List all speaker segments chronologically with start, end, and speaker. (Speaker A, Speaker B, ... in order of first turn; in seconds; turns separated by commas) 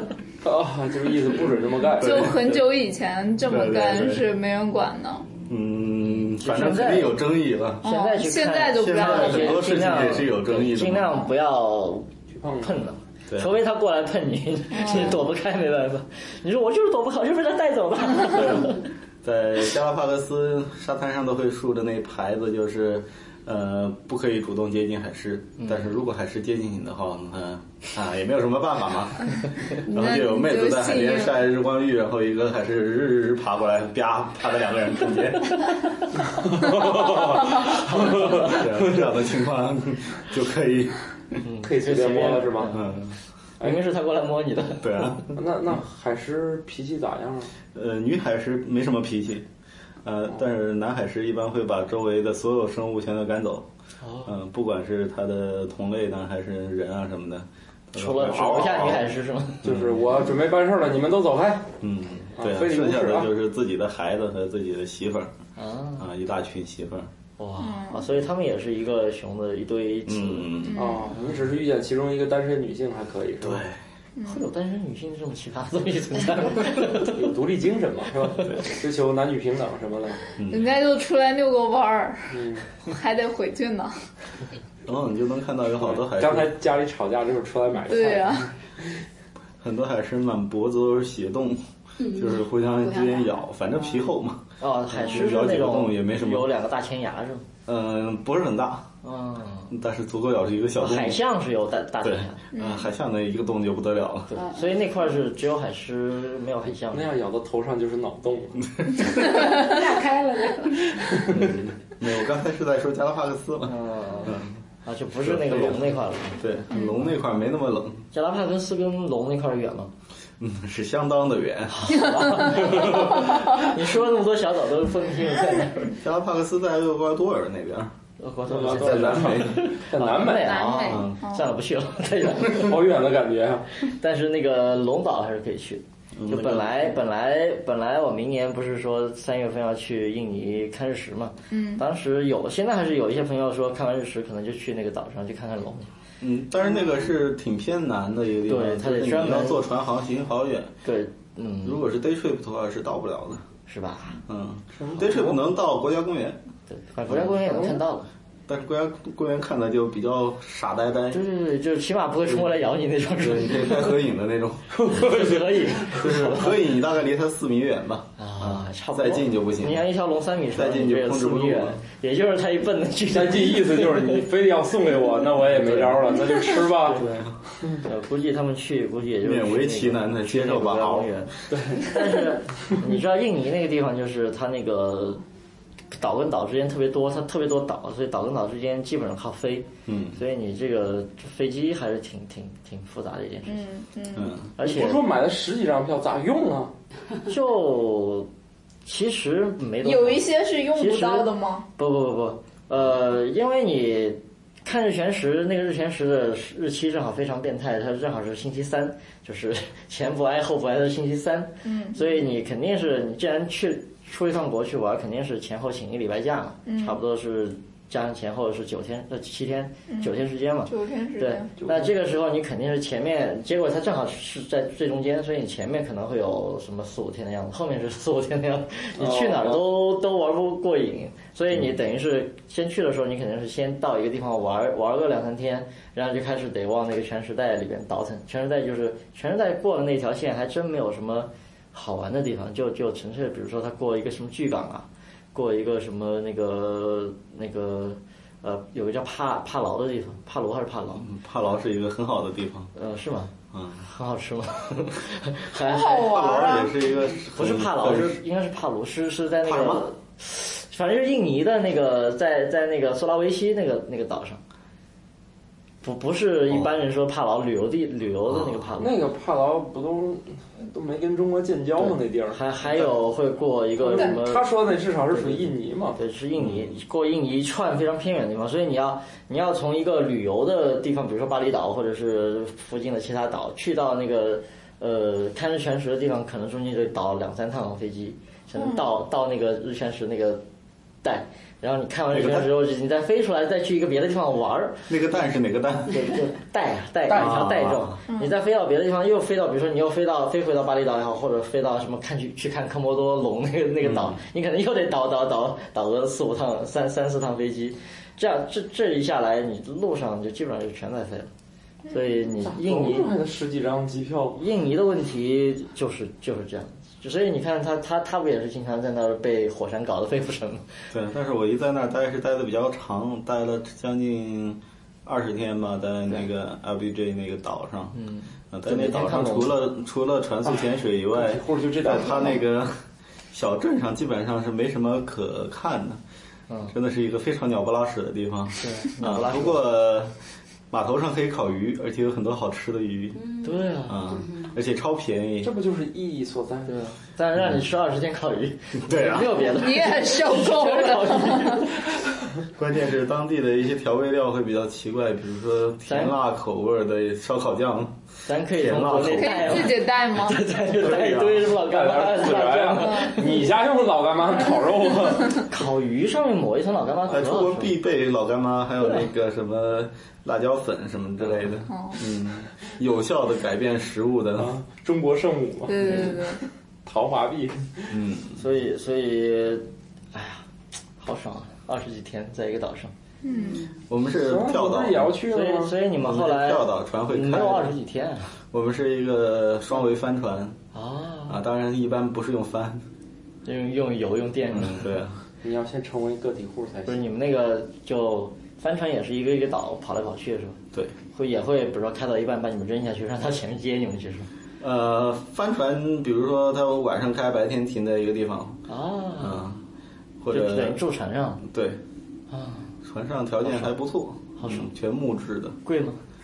Speaker A: 0.4-2.5, Speaker B: 2.0-5.3, Speaker C: 2.0-2.5, Speaker C: 3.5-4.3, Speaker C: 5.5-7.8, Speaker D: 6.3-7.2, Speaker B: 7.8-9.7, Speaker D: 7.8-12.1, Speaker C: 8.7-11.2, Speaker A: 12.3-12.8, Speaker D: 12.6-18.9, Speaker C: 13.3-13.6, Speaker B: 14.7-15.2, Speaker C: 18.3-35.7, Speaker D: 25.6-25.9, Speaker B: 29.9-31.4, Speaker A: 36.3-39.1, Speaker D: 37.9-38.6, Speaker C: 38.0-41.0, Speaker D: 41.4-42.9, Speaker A: 41.6-42.8, Speaker C: 42.7-43.2, Speaker D: 43.6-45.1, Speaker C: 44.8-45.4, Speaker A: 45.4-47.5, Speaker C: 47.7-49.5, Speaker C: 50.0-53.7, Speaker D: 54.0-54.3, Speaker C: 54.2-60.0, Speaker D: 58.0-59.6, Speaker A: 59.6-61.7, Speaker C: 61.8-65.3, Speaker A: 62.4-63.3, Speaker D: 65.6-66.1, Speaker C: 66.0-67.1, Speaker D: 67.4-71.4, Speaker B: 67.6-68.1, Speaker C: 70.1-70.8, Speaker B: 70.6-71.1, Speaker A: 70.8-73.6, Speaker C: 73.4-73.8, Speaker B: 74.2-74.5, Speaker D: 74.2-77.3, Speaker A: 77.1-80.2, Speaker C: 80.4-80.7, Speaker B: 80.5-84.0, Speaker A: 82.3-82.7, Speaker C: 84.9-86.5, Speaker A: 85.8-89.0, Speaker B: 87.9-88.5, Speaker C: 89.6-96.5, Speaker E: 92.0-93.5, Speaker D: 94.6-97.5, Speaker C: 97.7-98.9, Speaker D: 99.0-99.7, Speaker C: 99.7-101.2, Speaker D: 100.8-102.4, Speaker C: 102.0-104.3, Speaker B: 102.5-102.9, Speaker D: 104.3-107.1, Speaker A: 106.9-108.7, Speaker E: 109.2-111.2, Speaker A: 111.1-111.5, Speaker C: 111.3-114.6, Speaker D: 113.7-116.4, Speaker C: 115.2-118.1, Speaker D: 118.1-119.9, Speaker C: 120.4-122.6, Speaker D: 121.7-126.0, Speaker B: 122.6-123.3, Speaker C: 126.0-127.9, Speaker D: 128.2-132.8, Speaker A: 128.5-130.8, Speaker C: 128.6-129.7, Speaker B: 130.4-131.5, Speaker C: 130.9-131.2, Speaker A: 132.4-133.7, Speaker D: 133.8-145.9, Speaker C: 136.2-136.9, Speaker B: 141.5-141.8, Speaker C: 146.2-150.7, Speaker D: 148.5-149.6, Speaker D: 150.8-151.8, Speaker C: 151.6-153.4, Speaker D: 153.7-154.2, Speaker C: 154.3-156.4, Speaker A: 154.8-155.1, Speaker D: 155.0-155.4, Speaker D: 156.7-158.1, Speaker A: 157.5-157.8, Speaker C: 158.5-161.2, Speaker D: 161.1-163.9, Speaker C: 163.2-164.8, Speaker A: 164.7-165.8, Speaker D: 164.9-166.6, Speaker C: 165.9-169.9, Speaker D: 168.2-174.2, Speaker C: 170.5-171.8, Speaker A: 173.1-177.0, Speaker C: 175.5-176.1, Speaker C: 176.9-177.4, Speaker D: 177.8-185.2, Speaker C: 179.2-181.3, Speaker A: 181.5-181.9, Speaker D: 185.9-193.6, Speaker C: 189.9-190.2, Speaker B: 193.4-194.3, Speaker C: 194.2-194.5, Speaker D: 194.6-195.0, Speaker A: 194.6-196.7, Speaker D: 197.3-198.3, Speaker D: 198.8-251.1, Speaker B: 199.8-201.7, Speaker B: 211.6-212.2, Speaker B: 216.6-217.0, Speaker B: 219.9-221.5, Speaker A: 221.6-221.9, Speaker A: 229.0-229.7, Speaker C: 251.0-252.7, Speaker D: 252.8-256.2, Speaker C: 253.5-253.9, Speaker B: 255.6-256.8, Speaker C: 256.0-258.2, Speaker D: 257.3-264.4, Speaker C: 259.4-259.9, Speaker D: 265.8-269.0, Speaker C: 268.3-268.7, Speaker A: 268.8-272.9, Speaker D: 271.8-274.4, Speaker A: 273.8-276.0, Speaker D: 275.1-290.4, Speaker C: 276.4-276.7, Speaker B: 288.6-288.9, Speaker D: 291.0-294.9, Speaker C: 292.1-292.6, Speaker C: 294.9-296.2, Speaker D: 295.9-311.3, Speaker C: 297.1-298.0, Speaker B: 298.1-298.4, Speaker C: 303.8-304.2, Speaker D: 311.9-313.1, Speaker A: 312.4-314.4, Speaker D: 314.4-320.7, Speaker C: 320.9-327.9, Speaker D: 327.9-329.6, Speaker C: 328.5-332.8, Speaker A: 330.5-332.4, Speaker C: 333.3-336.0, Speaker D: 336.5-336.7, Speaker C: 336.7-340.1, Speaker D: 338.6-339.6, Speaker C: 340.7-343.2, Speaker E: 343.2-344.5, Speaker D: 343.4-344.1, Speaker C: 343.9-345.5, Speaker A: 345.4-346.8, Speaker D: 346.7-351.8, Speaker C: 348.8-349.4, Speaker B: 349.5-351.7, Speaker C: 352.6-358.0, Speaker D: 355.9-356.1, Speaker D: 358.3-363.5, Speaker C: 358.5-359.7, Speaker B: 359.1-360.4, Speaker C: 360.7-361.5, Speaker A: 361.6-365.4, Speaker D: 365.4-367.8, Speaker C: 367.1-374.6, Speaker B: 371.7-372.0, Speaker A: 374.4-376.1, Speaker B: 375.7-376.4, Speaker A: 376.9-378.0, Speaker C: 377.9-378.4, Speaker D: 378.4-380.4, Speaker D: 381.0-382.9, Speaker B: 383.2-383.7, Speaker C: 383.9-385.1, Speaker A: 384.1-385.8, Speaker D: 385.3-388.4, Speaker C: 386.0-387.8, Speaker C: 388.5-390.6, Speaker D: 390.7-391.4, Speaker C: 391.3-392.8, Speaker D: 393.4-394.9, Speaker C: 394.5-395.2, Speaker A: 395.4-397.0, Speaker D: 396.9-400.6, Speaker D: 401.1-404.3, Speaker C: 404.6-408.7, Speaker D: 408.7-409.4, Speaker C: 409.2-409.6, Speaker C: 410.2-410.8, Speaker D: 410.3-411.4, Speaker C: 411.4-411.8, Speaker D: 412.3-412.7, Speaker C: 412.8-415.6, Speaker D: 413.4-413.8, Speaker D: 414.4-414.7, Speaker D: 415.6-416.0